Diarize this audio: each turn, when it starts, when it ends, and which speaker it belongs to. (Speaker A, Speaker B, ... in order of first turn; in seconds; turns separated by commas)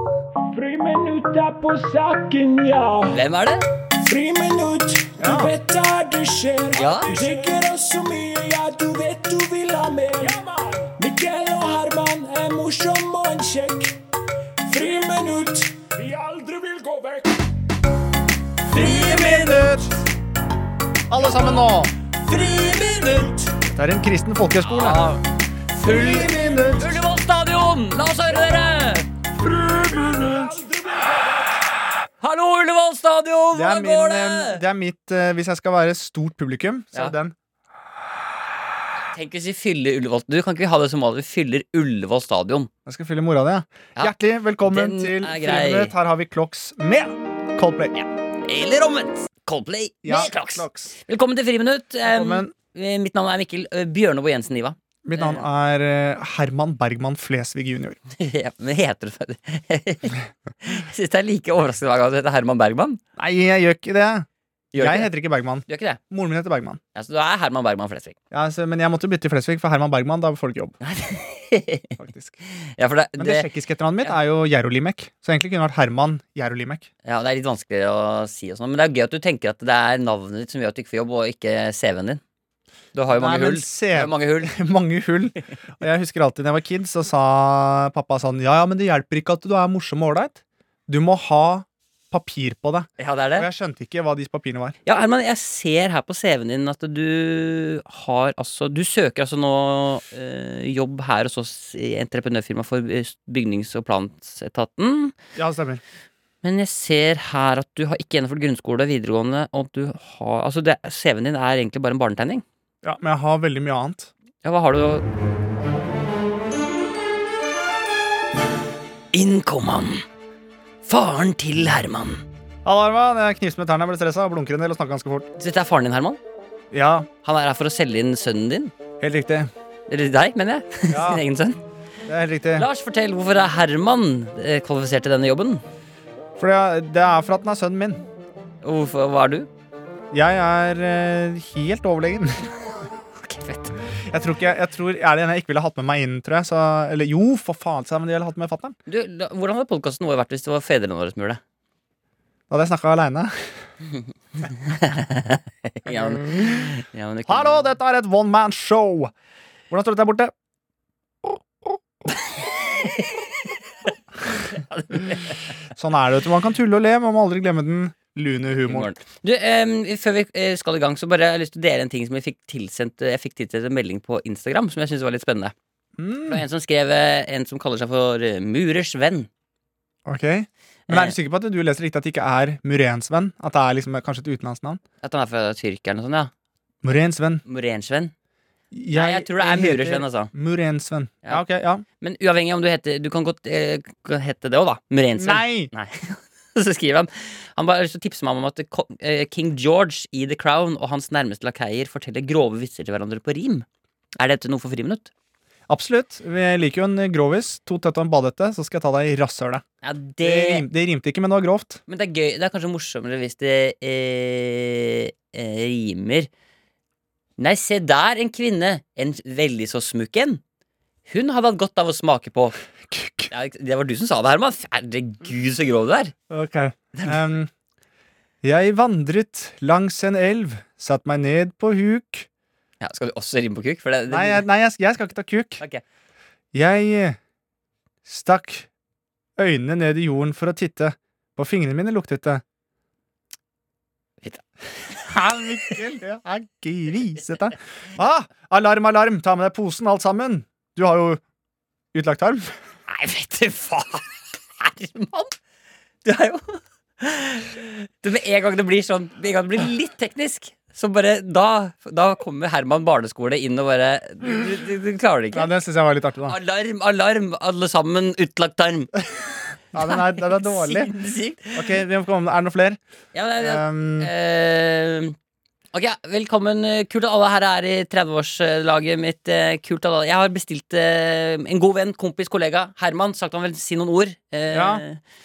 Speaker A: 0.5-3.2, Speaker B: 3.1-3.6, Speaker A: 4.0-14.0, Speaker C: 5.2-5.5, Speaker B: 6.8-7.2, Speaker A: 14.6-17.4, Speaker B: 18.7-19.8, Speaker C: 18.7-19.9, Speaker C: 21.1-21.9, Speaker B: 22.3-23.2, Speaker A: 23.1-23.5, Speaker C: 23.7-25.1, Speaker B: 24.7-25.2, Speaker B: 25.7-29.1, Speaker C: 25.8-27.0, Speaker A: 26.3-26.7, Speaker C: 29.5-30.5, Speaker A: 30.0-31.6, Speaker B: 32.2-34.6, Speaker C: 33.5-37.3, Speaker B: 39.1-42.7, Speaker C: 42.9-48.1, Speaker B: 44.0-45.9, Speaker B: 48.5-55.4, Speaker C: 50.0-50.9, Speaker C: 52.0-52.5, Speaker C: 55.0-58.0, Speaker B: 58.2-63.0, Speaker C: 63.2-66.8, Speaker B: 64.7-65.1, Speaker B: 65.7-66.0, Speaker B: 66.9-68.2, Speaker C: 68.3-70.8, Speaker B: 70.8-72.0, Speaker C: 72.0-72.4, Speaker B: 72.6-73.5, Speaker C: 73.2-76.9, Speaker B: 77.0-82.2, Speaker B: 82.9-84.5, Speaker C: 83.1-94.8, Speaker B: 93.0-93.5, Speaker B: 94.8-105.2, Speaker C: 105.3-105.8, Speaker B: 106.4-112.4, Speaker C: 112.8-114.1, Speaker B: 114.4-115.0, Speaker B: 119.1-119.9, Speaker B: 120.8-122.2, Speaker C: 122.6-125.3, Speaker B: 125.4-126.2, Speaker C: 126.7-127.1, Speaker B: 127.2-128.7, Speaker C: 129.0-129.5, Speaker B: 129.9-131.6, Speaker C: 130.9-131.2, Speaker C: 132.1-132.7, Speaker B: 132.6-135.6, Speaker C: 136.4-138.0, Speaker B: 138.6-139.5, Speaker C: 140.1-142.5, Speaker B: 143.2-143.7, Speaker C: 144.1-148.8, Speaker B: 148.9-151.4, Speaker C: 152.5-153.3, Speaker B: 154.4-157.7, Speaker C: 155.8-156.7, Speaker C: 157.3-159.1, Speaker C: 159.7-160.3, Speaker C: 161.2-161.8, Speaker B: 164.5-165.4, Speaker C: 165.8-168.9, Speaker B: 168.7-175.5, Speaker C: 176.0-176.4, Speaker B: 176.3-179.3, Speaker C: 180.0-184.8, Speaker B: 180.9-181.2, Speaker B: 185.0-186.3, Speaker C: 186.8-187.4, Speaker B: 187.4-188.1, Speaker C: 188.7-191.8, Speaker B: 188.9-190.3, Speaker B: 192.0-203.7, Speaker C: 195.1-195.7, Speaker B: 204.2-205.1, Speaker C: 205.7-209.6, Speaker B: 209.8-210.6, Speaker C: 210.2-211.8, Speaker B: 211.9-216.3, Speaker B: 217.4-220.4, Speaker B: 221.1-222.6, Speaker C: 222.9-223.3, Speaker B: 223.3-226.1, Speaker C: 226.3-227.5, Speaker B: 226.9-227.2, Speaker C: 228.4-232.3, Speaker B: 232.8-234.4, Speaker C: 234.1-235.6, Speaker C: 236.5-237.2, Speaker C: 238.1-238.7, Speaker C: 239.4-242.4, Speaker C: 245.1-251.2, Speaker C: 251.9-252.5, Speaker B: 252.9-254.0, Speaker B: 254.6-255.3, Speaker B: 256.0-265.5, Speaker C: 265.3-266.4, Speaker B: 266.3-268.9, Speaker C: 269.7-270.9, Speaker B: 269.8-271.8, Speaker C: 271.5-272.8, Speaker B: 273.1-275.1, Speaker C: 273.4-274.1, Speaker B: 275.7-285.0, Speaker C: 284.5-284.8